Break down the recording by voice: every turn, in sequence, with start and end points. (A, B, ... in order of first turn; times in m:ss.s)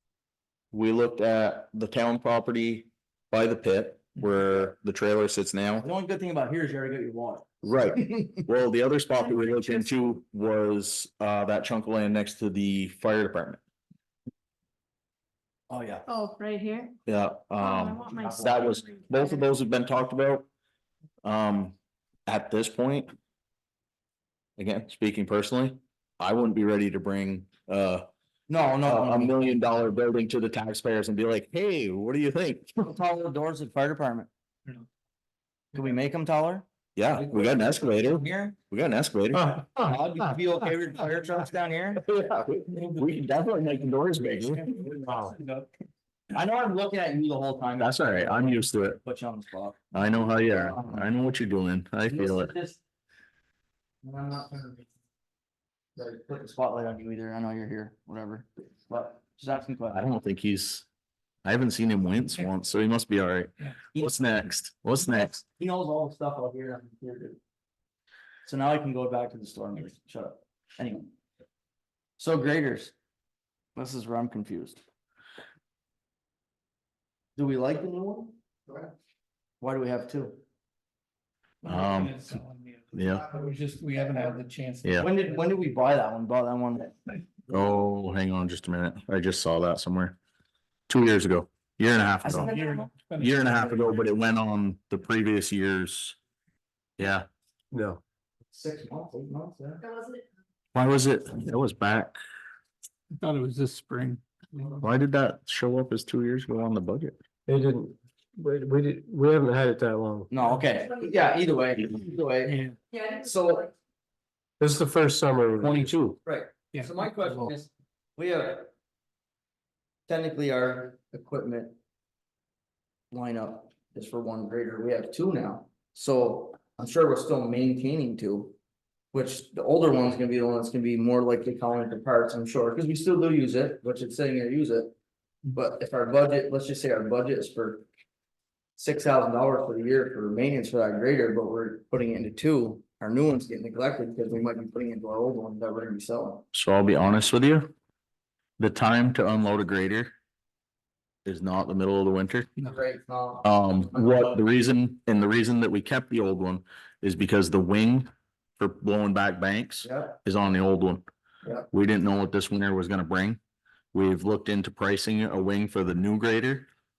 0:00.7-0:05.8 A
0:05.8-0:08.4 B
0:07.6-0:13.6 A
0:09.3-0:09.6 C
0:15.7-0:16.1 B
0:16.1-0:17.0 C
0:17.1-0:20.5 A
0:17.6-0:19.5 C
0:21.2-0:21.8 A
0:22.3-0:23.1 A
0:24.6-0:28.1 A
0:28.5-0:29.4 B
0:28.8-0:32.8 A
0:32.8-0:34.3 B
0:35.7-0:38.6 B
0:36.9-0:39.6 A
0:39.3-0:39.9 D
0:39.6-0:42.0 B
0:42.0-0:44.7 A
0:42.9-0:43.2 E
0:44.5-0:45.7 E
0:44.9-0:45.3 D
0:46.3-0:51.0 B
0:47.8-0:49.0 A
0:49.9-0:52.5 A
0:52.1-0:52.8 B
0:54.0-0:54.8 B
0:56.0-1:00.0 B
0:59.9-1:00.8 A
1:01.4-1:05.4 A
1:03.9-1:04.2 B
1:05.1-1:07.4 B
1:08.4-1:11.1 B
1:12.2-1:12.9 B
1:13.8-1:14.8 B
1:17.4-1:18.3 B
1:19.6-1:20.4 B
1:21.6-1:25.3 E
1:21.6-1:22.3 A
1:22.9-1:23.3 A
1:25.0-1:26.9 B
1:27.5-1:30.2 A
1:30.9-1:32.5 A
1:32.2-1:32.9 B
1:32.4-1:34.0 E
1:33.2-1:36.2 A
1:37.0-1:37.2 A
1:37.7-1:38.0 D
1:38.5-1:39.8 B
1:39.9-1:40.2 C
1:40.7-1:42.2 A
1:43.2-1:44.8 E
1:44.8-1:47.2 A
1:47.5-1:50.3 D
1:50.3-1:53.7 B
1:52.5-1:52.8 E
1:54.6-1:56.1 D
1:55.6-1:56.1 A
1:56.2-1:58.7 B
1:56.7-1:57.5 E
2:00.1-2:01.8 B
2:03.1-2:08.5 B
2:09.1-2:14.9 B
2:15.5-2:17.8 B
2:18.8-2:26.4 B
2:26.5-2:27.7 A
2:28.6-2:30.1 A
2:31.2-2:32.5 A
2:32.6-2:34.3 B
2:33.4-2:41.0 A
2:39.8-2:40.2 B
2:41.7-2:43.4 A
2:43.9-2:46.7 A